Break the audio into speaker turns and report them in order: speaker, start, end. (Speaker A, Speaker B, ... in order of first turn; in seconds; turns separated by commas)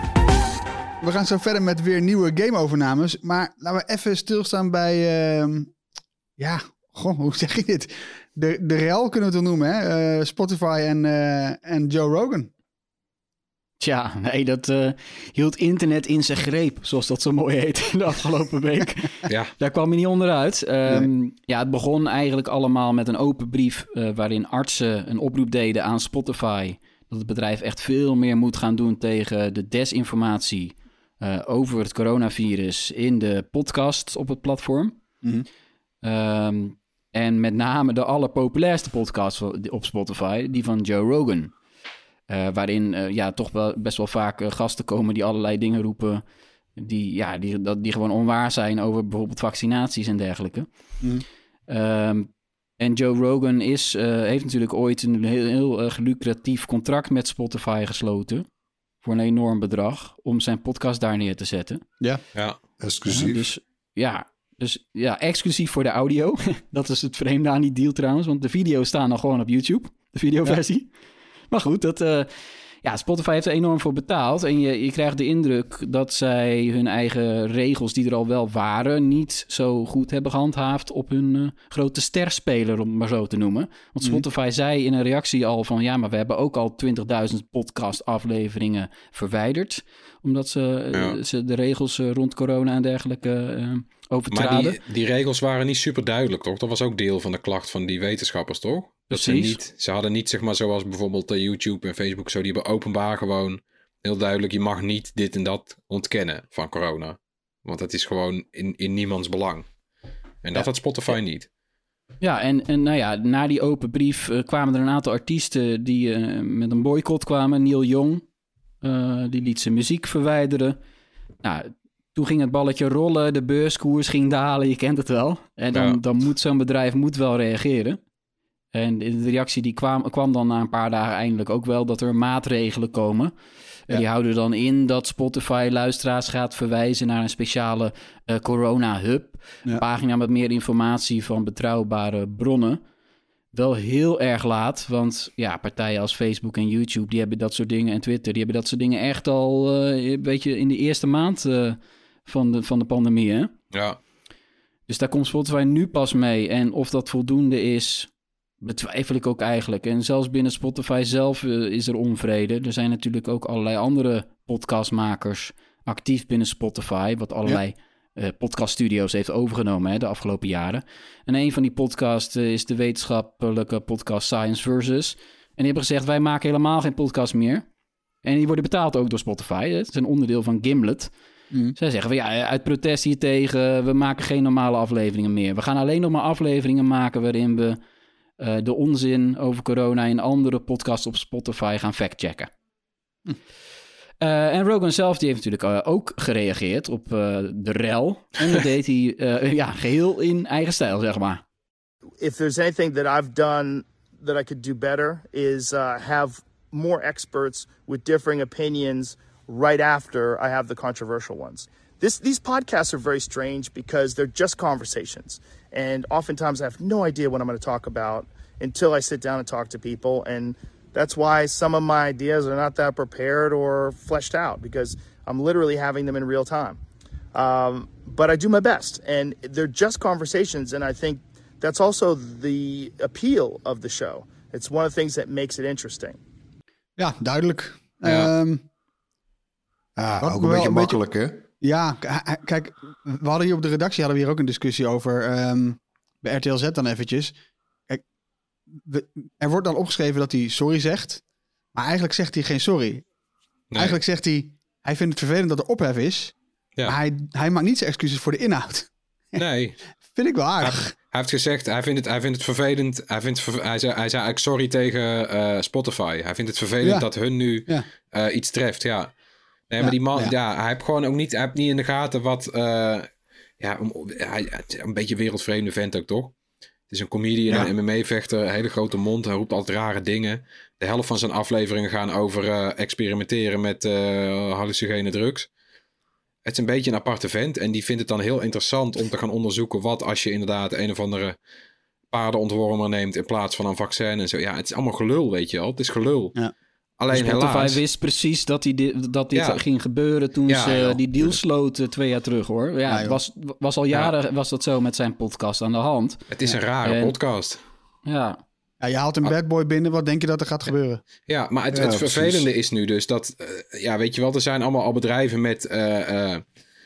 Speaker A: 1.0-5.7, Speaker A: 6.4-12.5, Speaker B: 13.8-35.0, Speaker C: 19.3-19.5, Speaker B: 36.0-41.5, Speaker B: 42.3-46.2, Speaker B: 46.8-50.7, Speaker B: 51.7-58.5, Speaker B: 59.0-61.8, Speaker D: 62.8-63.5, Speaker B: 63.1-70.9, Speaker B: 71.5-72.3, Speaker B: 72.8-94.8, Speaker C: 94.3-109.7, Speaker B: 99.1-99.6, Speaker C: 110.4-111.5, Speaker B: 112.2-118.2, Speaker B: 118.8-120.8, Speaker B: 121.4-128.0, Speaker C: 125.7-126.0, Speaker B: 128.7-133.3, Speaker B: 133.9-142.8, Speaker B: 143.5-153.5, Speaker C: 153.7-154.0, Speaker B: 154.9-158.1, Speaker B: 158.6-177.7, Speaker B: 178.2-181.1, Speaker B: 181.8-187.8, Speaker B: 188.4-192.5, Speaker B: 194.2-201.4, Speaker E: 202.2-226.8, Speaker E: 227.3-236.2, Speaker A: 237.0-238.6, Speaker C: 238.1-238.3, Speaker D: 240.0-241.4, Speaker A: 240.2-241.0, Speaker A: 241.6-247.4, Speaker A: 248.8-251.2, Speaker A: 251.8-253.1, Speaker C: 253.7-254.0, Speaker A: 253.8-256.4, Speaker A: 256.9-259.4, Speaker C: 259.4-259.8, Speaker A: 260.1-260.9, Speaker C: 260.6-269.1, Speaker A: 266.8-267.1, Speaker C: 269.7-273.1, Speaker A: 269.8-270.3, Speaker C: 273.6-276.4, Speaker C: 276.9-285.5, Speaker C: 286.4-291.4, Speaker C: 292.1-296.4, Speaker C: 297.0-297.8, Speaker B: 297.1-306.2, Speaker C: 299.3-299.6, Speaker C: 300.5-301.4, Speaker A: 302.9-303.2, Speaker C: 306.3-307.6, Speaker B: 306.8-307.2, Speaker B: 308.1-308.4, Speaker A: 308.8-311.0, Speaker C: 311.3-316.4, Speaker D: 311.7-312.5